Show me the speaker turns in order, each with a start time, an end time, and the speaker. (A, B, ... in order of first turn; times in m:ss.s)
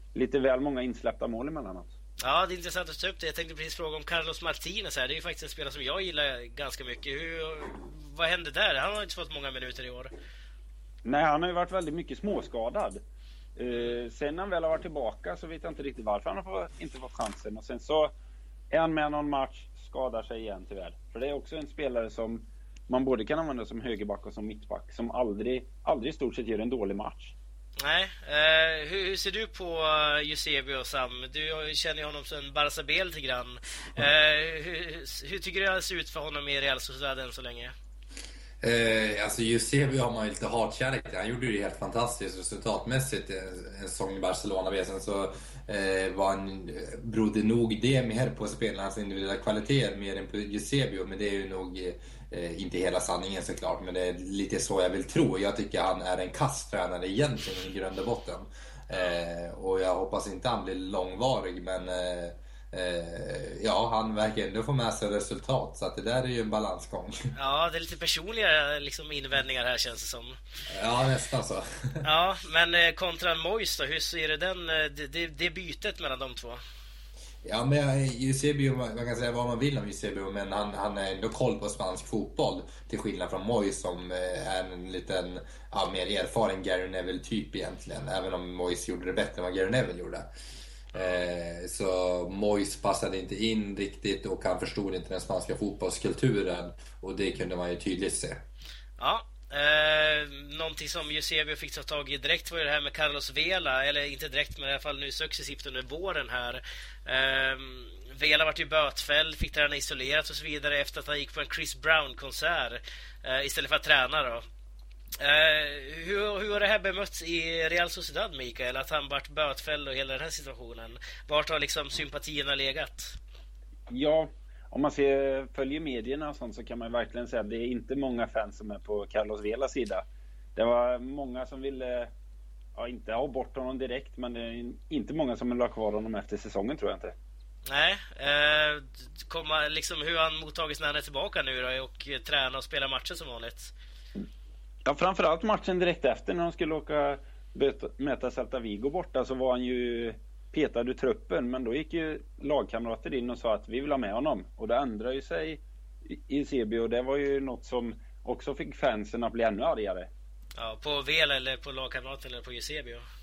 0:00.1-0:01.9 A
0:02.2-0:10.1 B
0:11.0-0:13.0 A
0:13.6-0:18.1 A
0:18.7-0:27.3 A
0:27.8-0:37.7 B
0:38.6-1:07.3 C
1:07.3-1:10.4 B
1:10.7-1:12.0 C
1:12.0-1:16.6 B
1:17.4-1:30.3 C
1:30.9-1:38.4 C
1:30.9-1:31.2 B
1:39.0-1:54.4 B
1:55.2-2:03.2 B
2:03.9-2:10.0 A
2:10.6-2:12.1 A
2:12.8-2:17.1 A
2:17.7-2:23.7 B
2:24.8-2:40.1 A
2:40.6-2:43.0 B